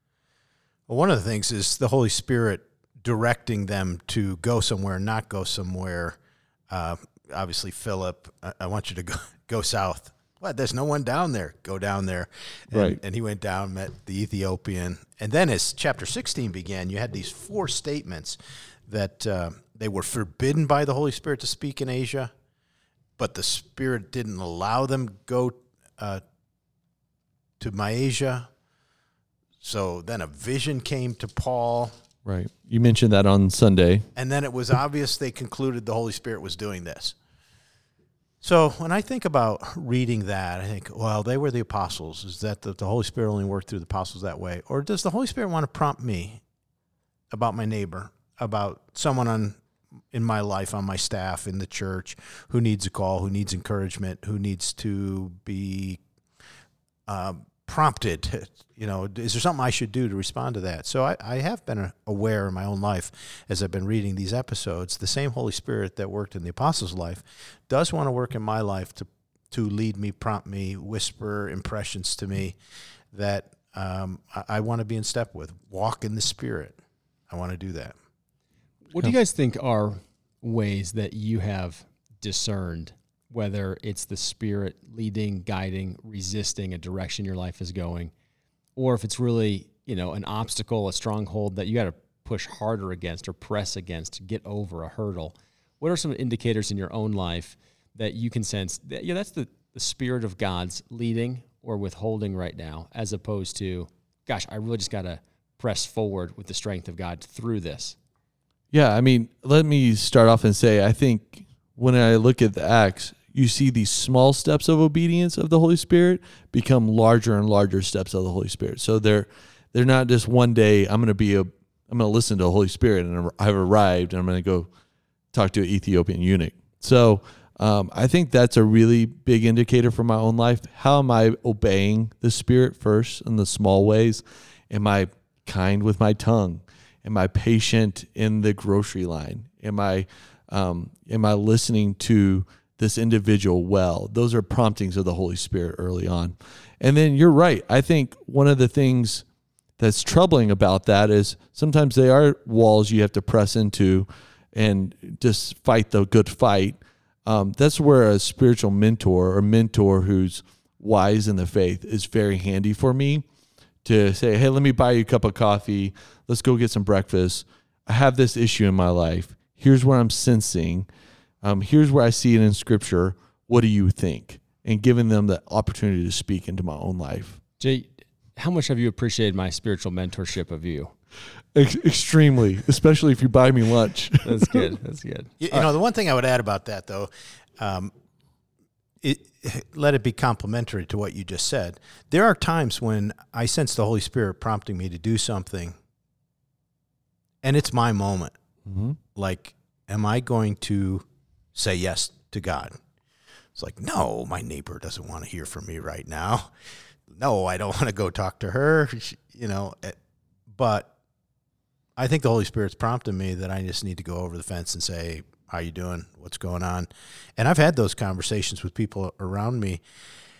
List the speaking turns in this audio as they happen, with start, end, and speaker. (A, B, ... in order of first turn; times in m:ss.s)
0:00.9-0:06.2 A
0:06.7-0:22.3 A
0:12.7-0:13.0 B
0:23.2-0:26.2 A
0:27.6-0:28.5 A
0:29.6-0:31.9 A
0:32.2-0:34.0 B
0:34.2-0:37.2 A
0:38.4-0:46.4 A
0:47.3-0:49.6 A
0:50.1-0:56.0 A
0:57.1-1:12.6 A
1:13.1-1:16.8 A
1:17.3-1:18.0 A
1:18.9-1:28.1 C
1:28.8-1:48.0 C
1:48.7-2:04.7 B
2:05.3-2:29.2 B
2:29.8-2:43.3 B
2:43.8-2:50.9 B
2:51.4-2:57.4 B
2:57.6-3:00.9 C
3:01.5-3:04.6 B
3:04.2-3:05.7 C
3:05.4-3:07.9 A
3:09.0-3:15.8 A
3:17.4-3:18.4 A
3:18.6-3:19.0 B
3:19.2-3:22.8 A
3:23.6-3:26.5 A
3:27.1-3:30.0 A
3:30.5-3:30.9 A
3:32.0-3:39.8 A